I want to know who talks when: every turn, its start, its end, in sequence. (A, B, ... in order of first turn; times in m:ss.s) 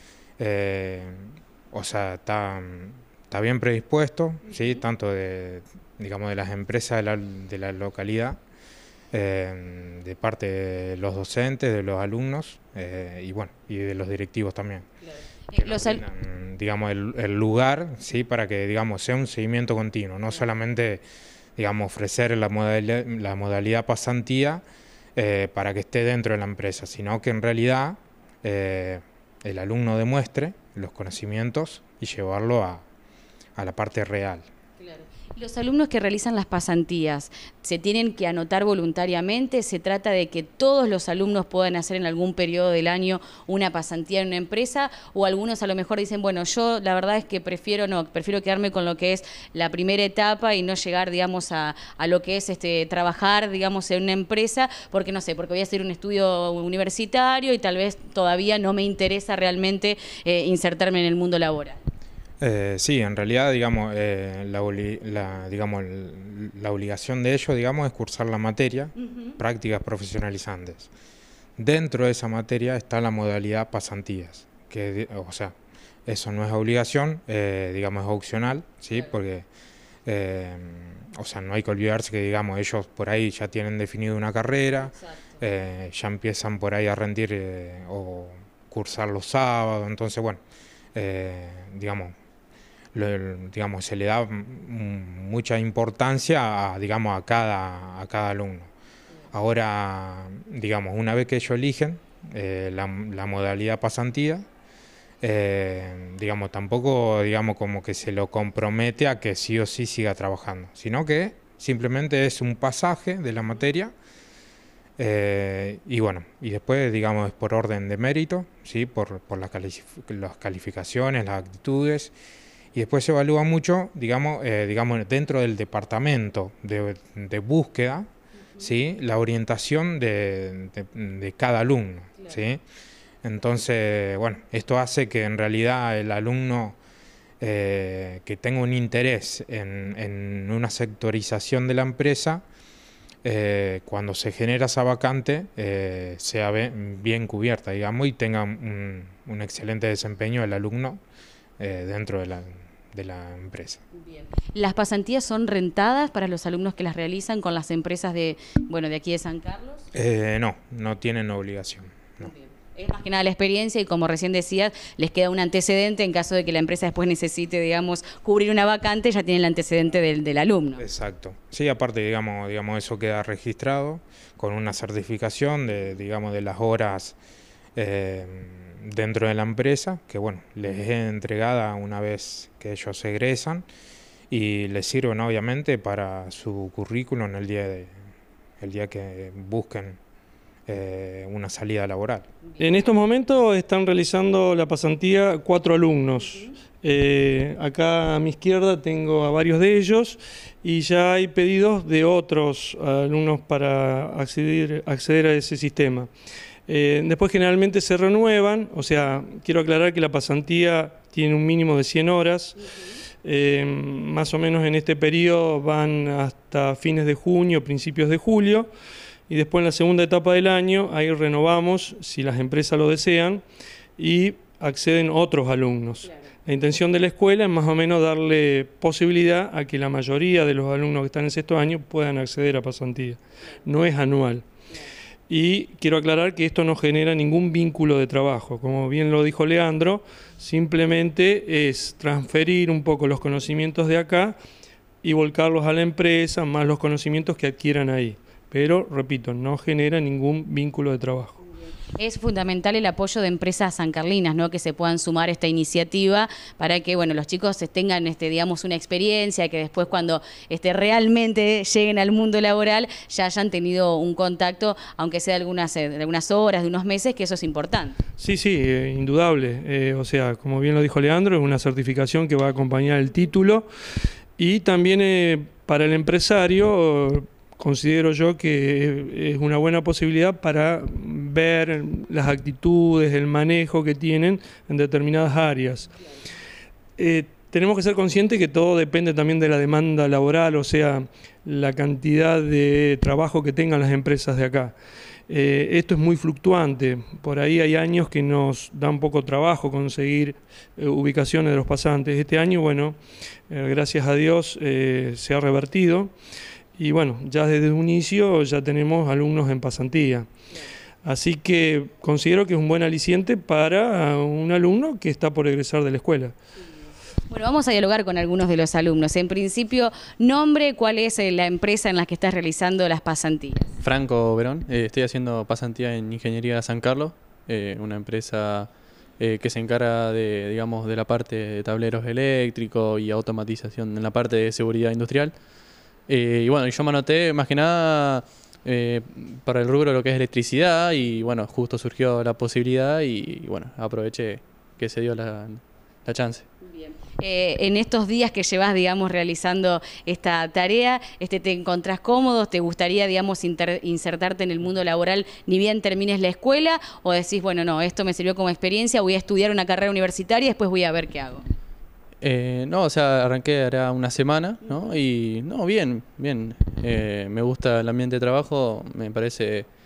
0:00.4-0:08.4 A
0:04.4-0:04.8 B
0:09.1-0:14.9 A
0:15.5-0:16.0 B
0:15.6-0:21.0 A
0:21.6-0:24.6 A
0:25.2-0:32.8 A
0:33.6-0:34.5 A
0:34.8-1:01.8 B
1:02.4-1:10.9 A
1:11.6-1:15.6 A
1:16.1-1:19.5 A
1:20.1-1:30.4 A
1:24.8-1:25.4 B
1:31.0-1:32.1 A
1:32.9-1:38.7 A
1:39.3-1:44.5 A
1:45.2-1:53.9 A
1:55.0-2:02.1 A
2:02.7-2:08.1 A
2:08.6-2:12.6 A
2:13.2-2:16.8 A
2:17.4-2:22.4 A
2:23.2-2:31.0 A
2:31.6-2:33.8 A
2:34.0-2:39.8 B
2:39.9-2:42.3 A
2:42.2-2:50.8 B
2:50.8-2:57.2 A
2:57.8-3:03.7 A
3:04.3-3:07.9 A
3:08.6-3:10.0 A
3:10.7-3:12.3 A
3:12.6-3:26.1 C
3:26.7-3:32.6 C
3:33.2-3:38.7 C
3:39.3-3:43.4 C
3:44.0-3:54.5 C
3:55.3-4:04.4 C
4:05.0-4:11.4 C
4:12.0-4:28.0 B
4:28.2-4:33.7 C
4:34.4-4:45.9 C
4:47.0-4:54.7 C
4:55.3-5:03.0 C
5:03.5-5:06.1 C
5:06.8-5:10.3 C
5:11.0-5:16.3 C
5:17.3-5:23.8 B
5:23.8-5:35.4 D
5:36.1-5:46.5 D
5:46.6-6:01.4 B
6:02.2-6:09.7 D